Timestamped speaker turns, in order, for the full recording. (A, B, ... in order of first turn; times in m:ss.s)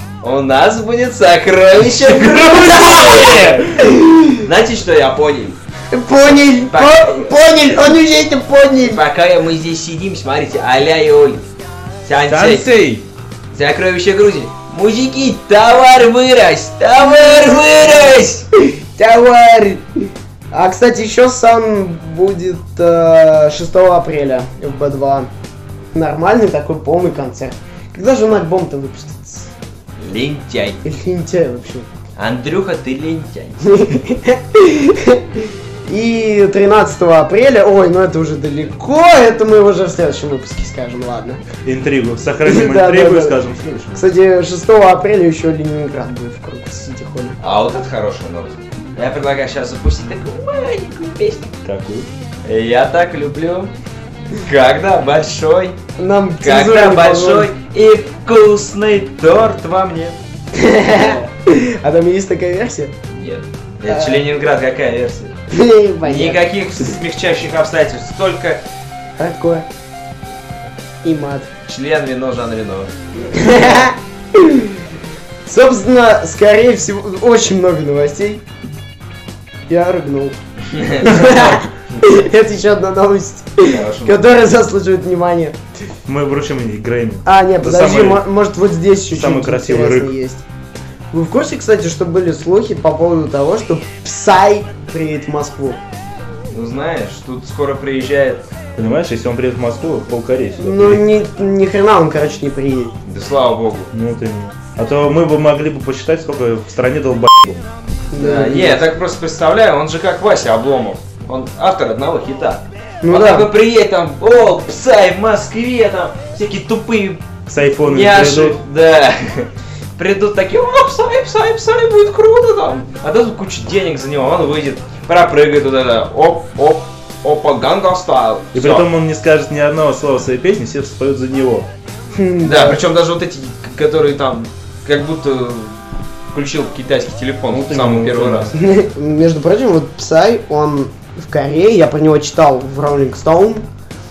0:00.2-0:03.8 A
0:02.0-0:03.7 B
0:03.7-0:04.4 C
0:04.4-0:05.6 A
0:05.9-0:09.0 C
0:06.7-0:07.4 A
0:08.8-0:11.4 A
0:12.0-0:12.8 A
0:12.3-0:13.0 B
0:13.5-0:18.4 A
0:18.7-0:19.9 C
0:20.5-0:25.3 C
0:25.9-0:29.5 C
0:30.0-0:30.8 A
0:30.8-0:31.9 C
0:32.2-0:33.9 A
0:33.7-0:41.4 C
0:41.6-0:44.0 B
0:42.4-0:43.4 C
0:43.9-0:47.4 C
0:47.4-0:51.5 A
0:51.6-0:52.1 B
0:52.4-0:53.7 A
0:54.4-0:55.8 A
0:56.0-0:57.5 C
0:56.4-1:00.2 A
1:00.5-1:02.9 C
1:03.1-1:05.4 A
1:03.9-1:04.2 C
1:05.5-1:06.4 C
1:06.0-1:08.6 A
1:09.2-1:09.7 C
1:11.0-1:11.5 C
1:11.7-1:13.9 A
1:13.3-1:14.8 C
1:15.5-1:18.4 C
1:19.7-1:20.4 C
1:20.7-1:22.0 A
1:21.0-1:25.6 C
1:23.6-1:24.3 A
1:26.1-1:28.2 B
1:27.2-1:30.4 C
1:29.1-1:30.1 B
1:31.1-1:35.8 C
1:36.5-1:38.4 A
1:38.8-1:41.0 B
1:40.6-1:43.0 C
1:43.1-1:43.9 A
1:43.9-1:47.6 B
1:48.1-1:48.9 C
1:48.2-1:57.2 A
1:53.0-1:53.5 C
1:57.5-1:58.6 B
1:57.8-2:08.9 A
2:08.5-2:11.7 B
2:12.1-2:12.8 C
2:12.4-2:15.8 A
2:16.3-2:18.5 A
2:17.5-2:18.5 B
2:18.5-2:23.7 C